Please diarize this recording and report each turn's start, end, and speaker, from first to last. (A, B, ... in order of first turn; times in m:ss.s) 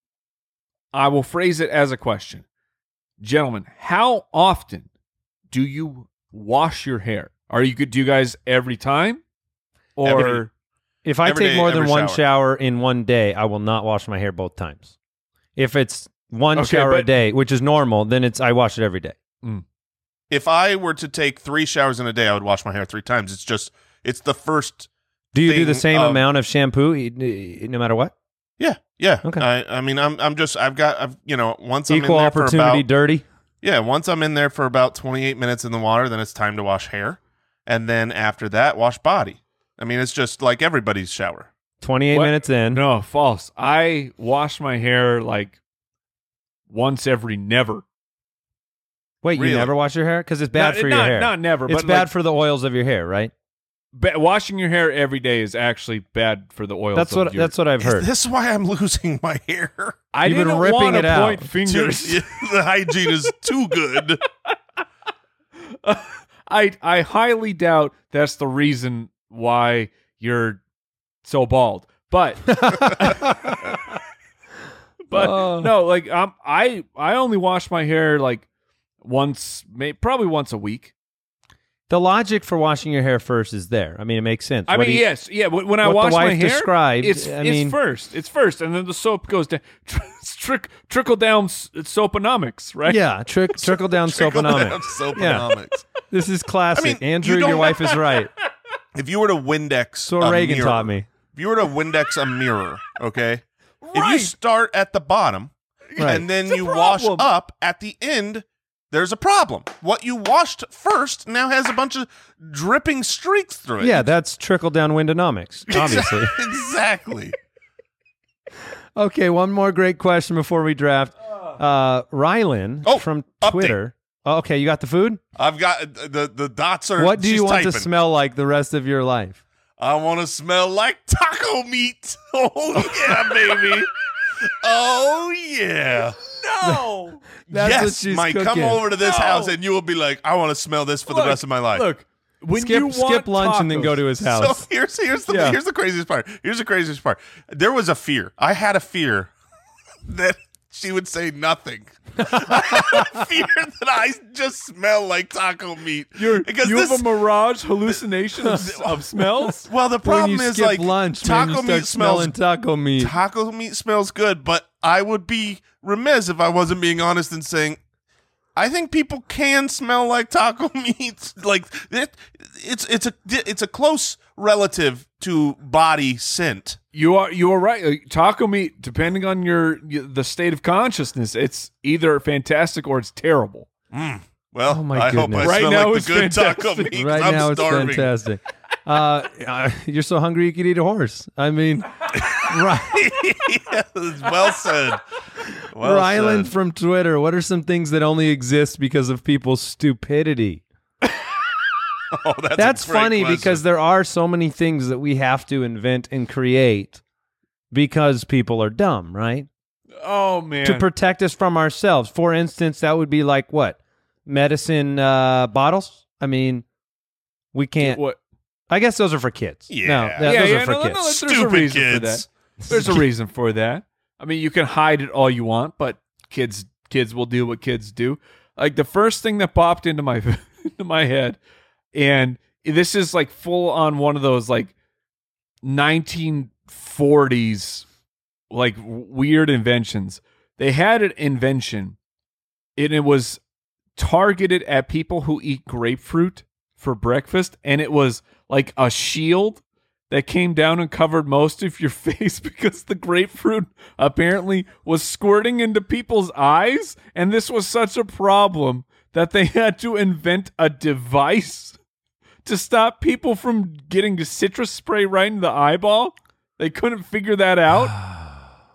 0:00.9-0:02.4 A
0:03.2-0:04.9 A
0:05.5-0:09.2 A
0:10.0-0:10.5 A
0:10.0-0:10.5 B
0:11.0-0:14.9 C
0:11.2-0:12.2 B
0:15.6-0:19.2 C
0:16.6-0:17.1 A
0:20.3-0:24.9 B
0:25.3-0:28.1 C
0:25.4-0:26.2 B
0:28.6-0:32.9 B
0:31.9-0:33.2 C
0:33.6-0:41.5 B
0:41.8-0:42.8 C
0:42.1-0:45.6 A
0:46.7-0:47.8 A
0:49.2-0:53.3 C
0:49.4-0:49.7 B
0:50.5-0:52.1 A
0:53.9-0:57.5 A
0:57.0-0:58.1 C
0:57.8-1:00.0 B
1:00.1-1:02.2 A
1:00.2-1:01.5 C
1:01.7-1:04.2 B
1:05.8-1:10.6 A
1:11.2-1:13.3 A
1:12.5-1:13.8 C
1:15.1-1:18.4 A
1:15.1-1:15.7 C
1:19.0-1:20.9 A
1:21.9-1:25.1 C
1:24.7-1:33.0 A
1:25.8-1:27.8 C
1:32.9-1:38.3 C
1:33.7-1:35.9 B
1:36.8-1:37.9 B
1:39.0-1:54.1 B
1:40.1-1:41.1 C
1:43.8-1:44.3 A
1:45.9-1:47.3 A
1:46.0-1:46.2 C
1:53.8-1:56.4 C
1:55.7-1:57.4 B
1:59.0-2:05.2 C
2:02.8-2:03.8 B
2:05.4-2:07.9 B
2:07.0-2:09.4 C
2:09.8-2:13.9 B
2:13.3-2:13.8 A
2:14.5-2:16.2 B
2:16.2-2:17.2 A
2:17.5-2:18.8 C
2:17.5-2:21.9 B
2:19.0-2:19.5 A
2:21.1-2:24.0 A
2:22.6-2:24.7 C
2:24.2-2:29.3 B
2:25.3-2:25.6 A
2:30.1-2:37.1 B
2:32.2-2:33.2 C
2:36.2-2:39.7 A
2:39.7-2:42.3 B
2:40.0-2:43.1 C
2:43.0-2:47.8 B
2:48.6-2:56.8 B
2:56.9-3:03.7 A
3:03.9-3:08.1 B
3:04.7-3:05.6 C
3:05.4-3:06.9 A
3:06.9-3:13.1 C
3:12.2-3:15.0 B
3:15.7-3:16.5 B
3:15.8-3:20.6 C
3:22.1-3:23.6 B
3:22.6-3:27.0 C
3:27.7-3:29.5 C
3:30.0-3:30.9 A
3:30.6-3:36.7 C
3:37.5-3:38.0 C
3:37.8-3:38.2 A
3:38.7-3:41.0 C
3:39.7-3:42.3 B
3:40.2-3:51.4 A
3:51.9-3:54.7 A
3:55.6-3:57.8 A
3:58.5-4:02.0 A
4:02.8-4:03.4 A
4:04.0-4:21.8 A
4:22.4-4:28.0 A
4:27.9-4:28.3 C